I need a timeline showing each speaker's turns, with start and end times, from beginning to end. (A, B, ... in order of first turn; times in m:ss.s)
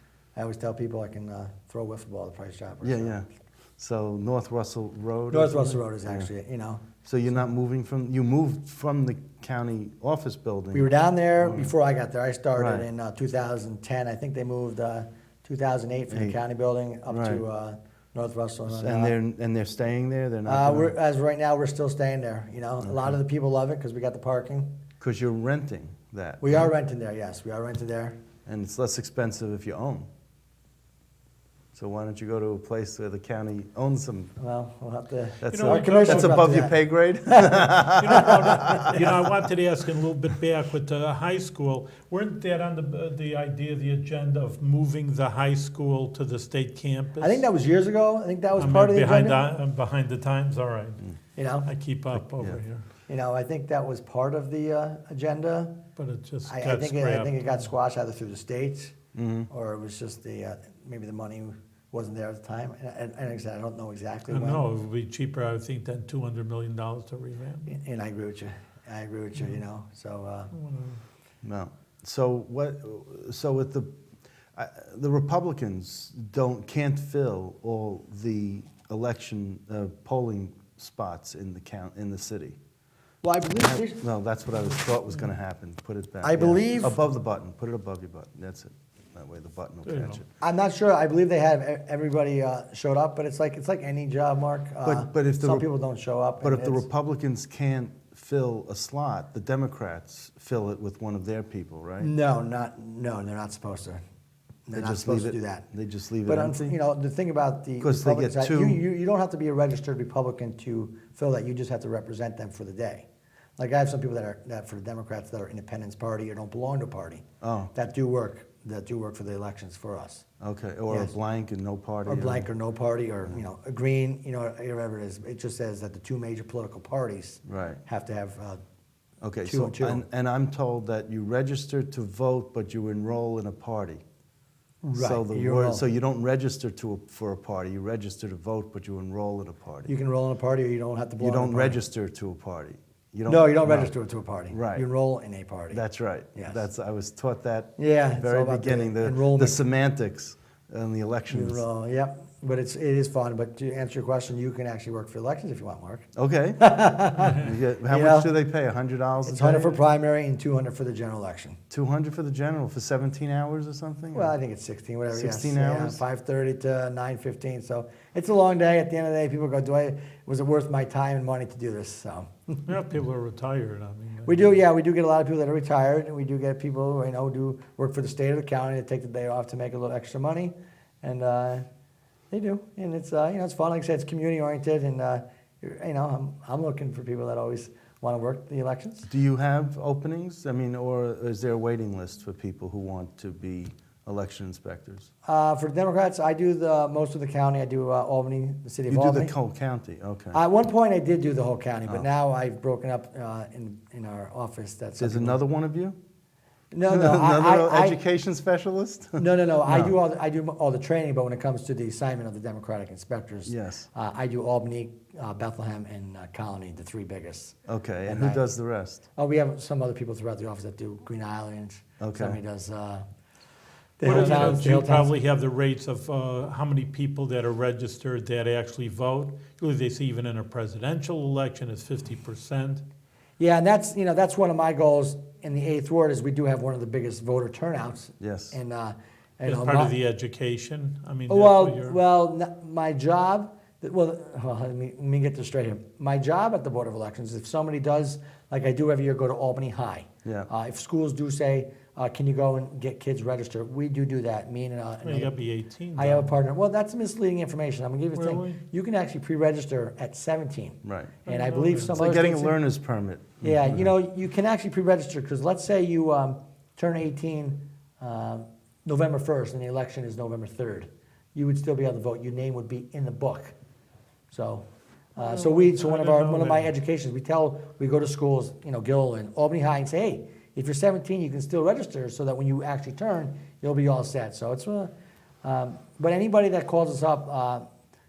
0:00.3-0:03.2 A
0:02.8-0:03.3 B
0:03.8-0:06.3 B
0:05.3-0:06.8 A
0:07.0-0:11.7 B
0:10.7-0:19.1 A
0:12.6-0:12.9 B
0:16.1-0:16.4 B
0:17.1-0:17.4 B
0:18.7-0:20.9 B
0:20.4-0:24.7 A
0:22.8-0:23.1 B
0:25.0-0:26.7 B
0:26.4-0:28.2 A
0:28.4-0:30.1 B
0:31.7-0:34.3 B
0:34.4-0:39.0 A
0:35.4-0:39.0 B
0:35.5-0:36.4 C
0:37.9-0:47.4 C
0:47.2-0:49.4 A
0:48.6-0:51.0 C
0:51.4-0:51.7 A
0:51.6-0:52.8 C
0:53.1-0:55.7 A
0:56.0-0:57.6 C
0:56.5-0:59.0 A
0:59.1-0:59.5 B
0:59.5-1:04.7 A
1:04.3-1:07.7 C
1:07.6-1:10.5 A
1:10.5-1:11.0 C
1:11.4-1:13.9 B
1:14.5-1:22.6 B
1:23.2-1:24.0 A
1:23.6-1:30.3 B
1:26.2-1:27.0 A
1:29.8-1:30.2 C
1:30.4-1:36.8 A
1:34.8-1:35.7 B
1:36.4-1:42.1 B
1:42.0-1:44.0 A
1:44.7-1:45.7 A
1:44.7-1:46.8 B
1:46.2-1:53.1 A
1:47.8-1:48.8 B
1:53.6-2:00.2 A
1:57.4-1:57.7 B
2:00.4-2:02.5 B
2:00.9-2:01.1 A
2:02.0-2:08.6 A
2:07.5-2:07.8 B
2:09.2-2:14.0 B
2:09.4-2:10.0 A
2:14.8-2:15.8 A
2:14.9-2:19.9 B
2:19.9-2:21.8 A
2:21.2-2:23.9 B
2:23.2-2:25.8 A
2:24.5-2:24.8 B
2:25.7-2:31.6 B
2:26.3-2:26.6 A
2:27.8-2:29.6 A
2:31.3-2:36.1 A
2:36.2-2:39.8 B
2:36.6-2:38.3 A
2:39.2-2:41.6 A
2:41.7-2:44.3 B
2:44.1-2:52.6 A
2:45.1-2:46.0 B
2:52.6-2:54.5 C
2:54.2-3:01.6 A
3:02.3-3:09.1 A
3:09.1-3:15.1 B
3:15.2-3:19.3 A
3:18.9-3:20.4 B
3:20.3-3:25.4 A
3:25.0-3:26.0 B
3:26.7-3:28.0 A
3:26.9-3:29.9 B
3:29.2-3:38.4 A
3:33.4-3:33.9 B
3:37.7-3:39.0 B
3:39.1-3:43.0 A
3:42.0-3:42.4 B
3:44.0-3:45.1 A
3:44.0-3:52.8 C
3:53.4-3:59.9 A
3:58.2-3:58.6 B
3:59.4-4:02.0 C
4:01.3-4:15.4 A
4:15.0-4:16.3 C
4:16.0-4:22.6 A
4:18.1-4:18.6 C
4:20.8-4:21.2 B
4:21.2-4:22.0 C
4:21.9-4:23.9 B
4:23.4-4:33.6 A
4:34.3-4:44.9 A
4:35.2-4:36.7 C
4:45.4-4:47.6 A